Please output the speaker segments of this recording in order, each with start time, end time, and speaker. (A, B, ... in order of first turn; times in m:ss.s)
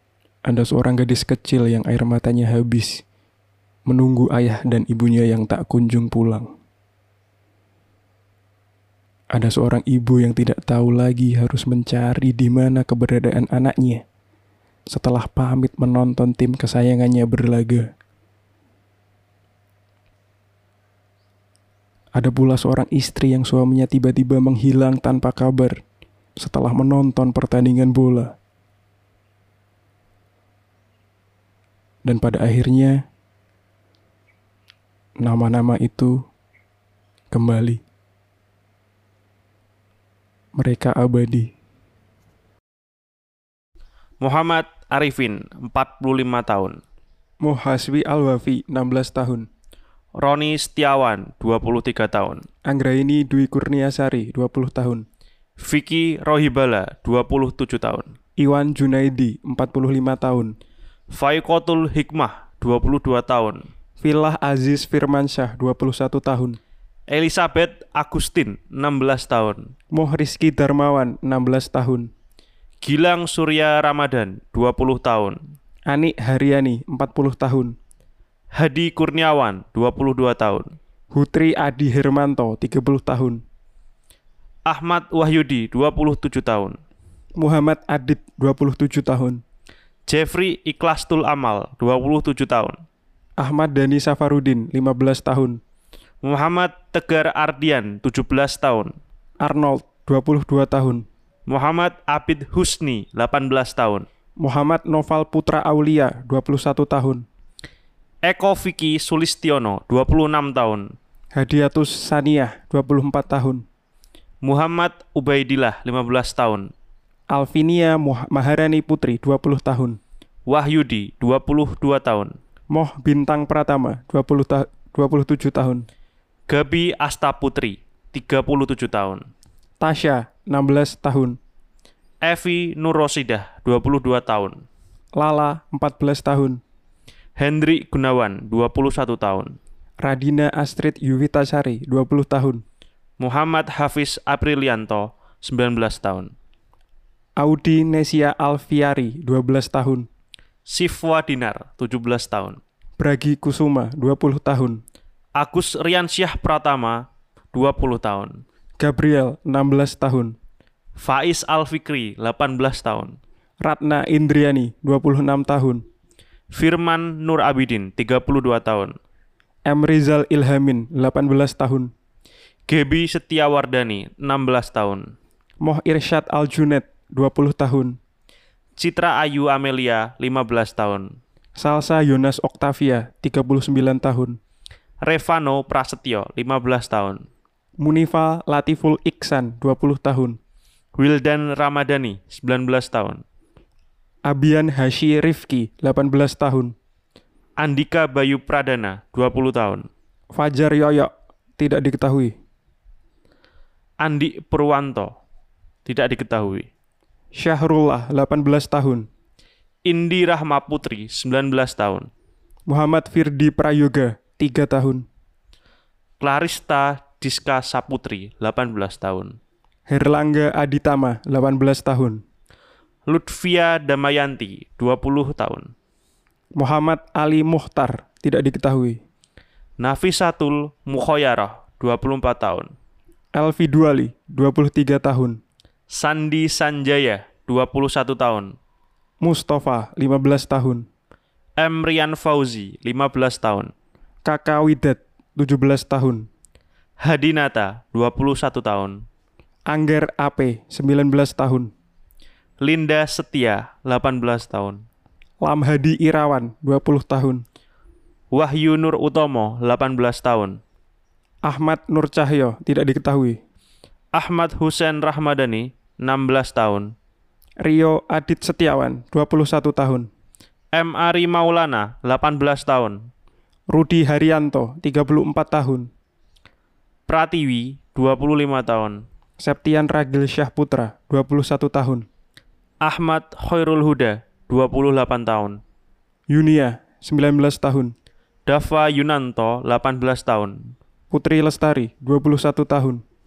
0:00.4-0:03.0 A
0:03.9-0:06.5 A
0:09.3-0:14.0 A
0:14.9-0:17.9 A
0:22.2-0:25.8 A
0:26.4-0:28.3 A
0:32.0-0:33.0 A
0:35.2-0:36.2 A
0:37.3-0:37.8 A
0:40.6-0:41.5 A
0:44.2-0:46.8 B
0:47.4-0:49.5 A
0:50.2-0:52.4 B
0:52.6-0:55.0 A
0:55.6-0:58.1 B
0:58.4-1:00.5 A
1:01.1-1:03.7 B
1:04.0-1:06.6 A
1:07.1-1:09.7 B
1:09.9-1:12.1 A
1:12.8-1:15.4 B
1:15.9-1:17.7 A
1:18.5-1:20.7 B
1:21.1-1:23.4 A
1:24.7-1:26.8 B
1:27.4-1:29.4 A
1:30.1-1:32.8 B
1:33.4-1:35.6 A
1:36.2-1:38.9 B
1:39.4-1:41.0 A
1:41.5-1:44.0 B
1:44.4-1:47.2 A
1:48.2-1:50.9 B
1:51.4-1:53.6 A
1:54.4-1:56.7 B
1:57.3-2:00.0 A
2:00.5-2:02.3 B
2:02.7-2:05.8 A
2:06.5-2:09.3 B
2:09.8-2:11.4 A
2:12.2-2:14.6 B
2:15.2-2:16.6 A
2:17.4-2:19.6 B
2:20.0-2:22.6 A
2:23.2-2:26.3 B
2:27.4-2:30.1 A
2:30.7-2:32.6 B
2:33.0-2:34.8 A
2:35.4-2:37.0 B
2:37.5-2:38.4 B
2:38.8-2:40.4 A
2:41.0-2:43.2 B
2:43.6-2:45.8 A
2:46.5-2:48.9 B
2:49.6-2:51.9 A
2:52.7-2:55.1 B
2:55.6-2:58.0 A
2:58.8-3:01.1 B
3:01.6-3:04.4 A
3:05.0-3:07.2 B
3:07.8-3:10.4 A
3:11.0-3:13.2 B
3:14.2-3:16.7 A
3:17.6-3:19.9 B
3:20.3-3:22.3 A
3:24.0-3:25.1 B
3:25.8-3:26.7 B
3:27.3-3:29.1 A
3:29.8-3:32.1 B
3:32.7-3:35.0 A
3:36.2-3:39.4 B
3:39.9-3:42.2 A
3:43.1-3:45.7 B
3:46.6-3:49.0 A
3:49.8-3:52.7 B
3:53.4-3:55.4 A
3:55.9-3:58.5 B
3:59.2-4:00.8 A
4:01.6-4:03.7 B
4:04.2-4:06.3 A
4:07.0-4:09.0 B
4:09.7-4:11.7 A
4:12.6-4:14.8 B
4:15.4-4:17.4 A
4:18.3-4:20.6 B
4:21.4-4:23.4 A
4:24.1-4:26.9 B
4:27.6-4:30.1 A
4:30.7-4:33.0 B
4:33.7-4:35.9 A
4:37.1-4:39.0 B
4:39.4-4:42.0 A
4:42.8-4:45.6 B
4:46.3-4:47.9 A
4:48.5-4:50.7 B
4:51.1-4:53.0 A